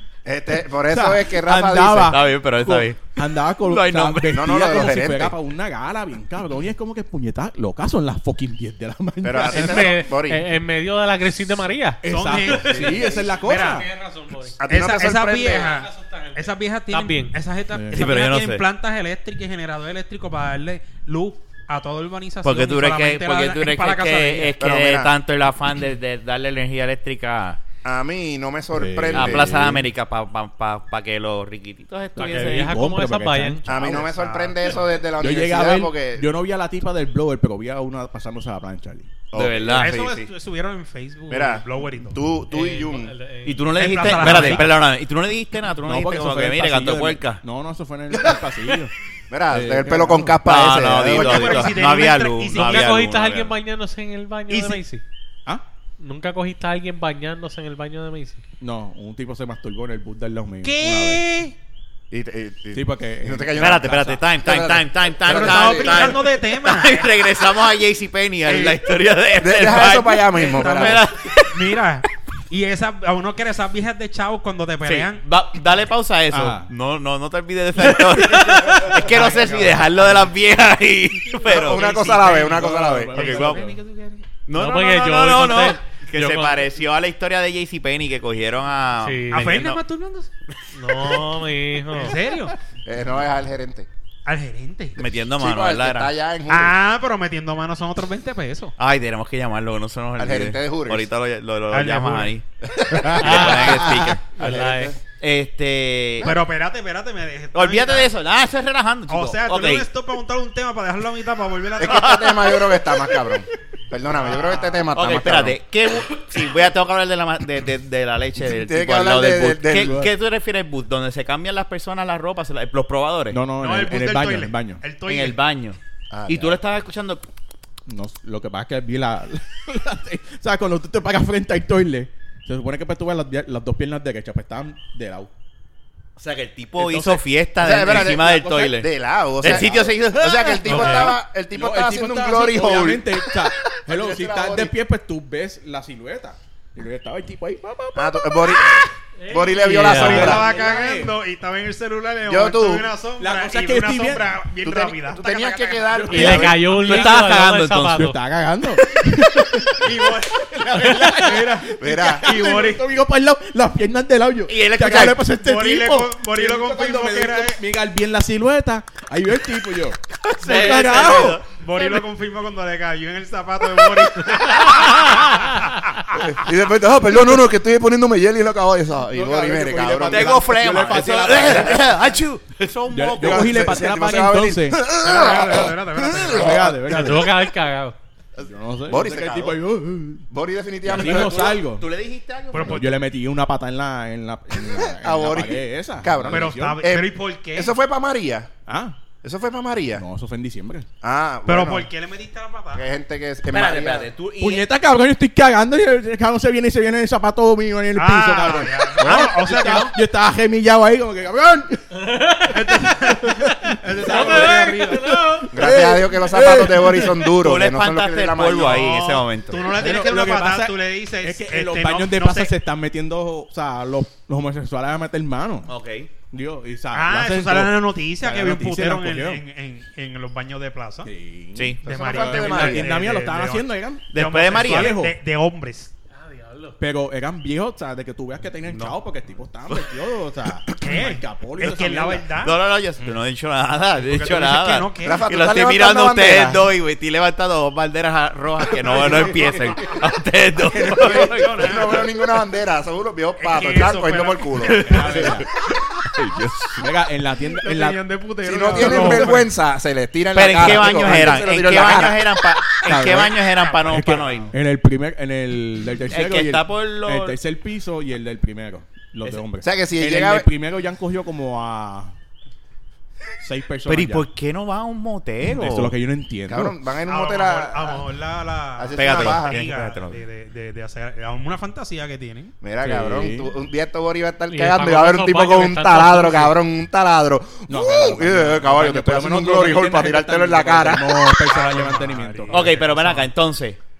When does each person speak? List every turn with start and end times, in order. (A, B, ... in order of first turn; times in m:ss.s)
0:00.2-0:02.2 A
0:00.8-0:10.0 B
0:02.1-0:04.4 C
0:04.3-0:05.3 A
0:09.2-0:10.4 A
0:09.4-0:14.6 D
0:12.0-0:13.9 B
0:12.1-0:12.8 E
0:13.4-0:13.9 E
0:14.6-0:15.7 A
0:14.6-0:24.6 E
0:15.4-0:17.4 D
0:17.7-0:18.1 B
0:17.9-0:18.6 C
0:22.4-0:27.6 C
0:24.6-0:25.1 A
0:27.8-0:29.6 A
0:28.7-0:29.9 B
0:29.1-0:32.8 C
0:32.2-0:34.1 B
0:32.2-0:33.6 D
0:33.7-0:36.3 A
0:33.8-0:34.8 E
0:35.2-0:39.2 B
0:39.3-0:40.3 A
0:39.3-0:40.0 C
0:39.8-0:42.2 E
0:41.3-0:43.1 A
0:42.5-0:44.4 D
0:43.4-0:47.4 C
0:43.7-0:44.7 E
0:45.9-0:48.9 B
0:48.1-0:48.7 A
0:49.3-0:51.9 A
0:49.5-0:50.4 B
0:50.4-0:53.5 C
0:51.1-0:52.9 E
0:52.5-0:55.0 D
0:54.5-0:54.8 E
0:56.0-0:58.4 D
0:58.6-1:01.2 B
1:00.6-1:01.6 E
1:02.1-1:06.2 A
1:02.7-1:04.2 B
1:03.6-1:11.8 C
1:05.3-1:07.1 E
1:08.5-1:08.8 E
1:09.4-1:11.0 A
1:10.3-1:15.2 E
1:14.8-1:22.2 C
1:16.3-1:16.7 B
1:18.8-1:19.7 A
1:19.2-1:19.6 E
1:21.4-1:23.7 A
1:22.0-1:22.7 E
1:22.2-1:24.2 B
1:23.1-1:23.7 C
1:24.5-1:29.8 C
1:24.6-1:26.7 D
1:29.0-1:29.6 D
1:29.3-1:30.3 E
1:30.6-1:31.2 C
1:30.7-1:32.2 D
1:32.0-1:32.6 E
1:32.8-1:33.9 A
1:34.3-1:35.0 E
1:35.0-1:36.1 C
1:35.4-1:36.8 A
1:36.5-1:38.8 E
1:38.8-1:42.4 C
1:40.2-1:41.1 A
1:41.7-1:42.3 E
1:42.6-1:45.0 A
1:43.0-1:46.3 C
1:43.2-1:45.0 D
1:46.2-1:48.1 E
1:47.5-1:49.9 C
1:49.1-1:52.4 E
1:51.8-1:55.6 A
1:51.8-1:52.7 C
1:54.1-1:54.9 E
1:54.9-2:03.4 C
1:58.4-2:00.0 A
1:59.8-2:00.1 B
2:03.3-2:04.8 B
2:03.6-2:05.4 E
2:05.0-2:07.2 C
2:06.1-2:06.6 A
2:07.9-2:15.3 B
2:16.2-2:18.9 C
2:16.8-2:17.2 B
2:17.6-2:24.7 A
2:17.8-2:18.8 B
2:19.4-2:21.2 C
2:19.4-2:19.9 B
2:20.7-2:21.1 D
2:20.7-2:28.8 B
2:28.0-2:30.5 A
2:29.2-2:30.4 D
2:29.7-2:31.2 B
2:29.9-2:37.3 E
2:32.3-2:32.9 A
2:33.2-2:34.3 B
2:34.6-2:36.8 A
2:36.1-2:38.2 D
2:36.7-2:38.0 C
2:37.9-2:51.4 B
2:39.8-2:40.3 E
2:40.8-2:41.4 D
2:41.8-2:42.3 A
2:42.2-2:42.8 E
2:44.5-2:45.2 C
2:45.3-2:47.6 E
2:50.3-2:52.0 C
2:50.6-2:56.2 E
2:54.4-2:54.8 C
2:56.1-3:00.5 A
2:59.1-3:02.1 B
3:00.0-3:03.7 C
3:02.9-3:04.8 B
3:03.2-3:06.8 A
3:04.9-3:06.8 E
3:06.2-3:07.3 B
3:06.8-3:08.0 D
3:08.4-3:09.6 A
3:08.4-3:10.3 B
3:10.3-3:11.6 A
3:10.8-3:11.9 B
3:11.0-3:12.8 C
3:12.5-3:13.0 E
3:12.6-3:16.9 B
3:14.6-3:18.5 A
3:16.3-3:17.8 E
3:18.7-3:19.0 B
3:19.2-3:20.0 A
3:20.0-3:20.9 B
3:21.0-3:21.9 A
3:21.5-3:22.8 E
3:22.7-3:24.1 A
3:23.5-3:24.6 C
3:24.4-3:34.6 B
3:28.0-3:30.0 E
3:32.0-3:32.4 D
3:32.5-3:35.2 E
3:34.0-3:35.6 D
3:35.5-3:37.2 B
3:35.5-3:39.1 A
3:37.3-3:39.7 C
3:39.0-3:42.6 E
3:39.7-3:45.7 B
3:45.7-3:46.1 C
3:46.3-3:49.4 B
3:46.9-3:51.1 E
3:51.0-3:55.1 B
3:51.6-3:52.8 C
3:51.8-3:53.0 A
3:51.8-3:55.9 E
3:54.1-3:55.0 C
3:56.1-3:56.8 D
3:56.8-4:02.3 B
3:58.7-3:59.0 C
4:00.8-4:02.6 E
4:02.3-4:12.0 C
4:04.0-4:05.3 E
4:05.0-4:06.7 A
4:08.9-4:09.9 B
4:10.7-4:15.3 A
4:10.9-4:12.1 E
4:13.4-4:15.4 E
4:14.6-4:16.9 C
4:14.8-4:15.5 B
4:16.8-4:18.0 B
4:17.5-4:19.5 E
4:18.4-4:23.3 A
4:18.8-4:19.3 B
4:20.3-4:24.5 C
4:20.8-4:21.2 B
4:22.8-4:32.2 B
4:23.6-4:24.5 E
4:26.1-4:27.4 C
4:29.6-4:30.5 A
4:33.4-4:34.3 B
4:33.9-4:35.9 C
4:35.4-4:36.8 B
4:36.5-4:38.1 A
4:37.1-4:42.5 E
4:38.8-4:39.6 A
4:39.0-4:40.2 C
4:42.6-4:51.1 A
4:42.8-4:43.5 B
4:44.5-4:46.6 D
4:47.7-4:52.8 B
4:51.4-4:53.3 E
4:52.5-4:53.8 C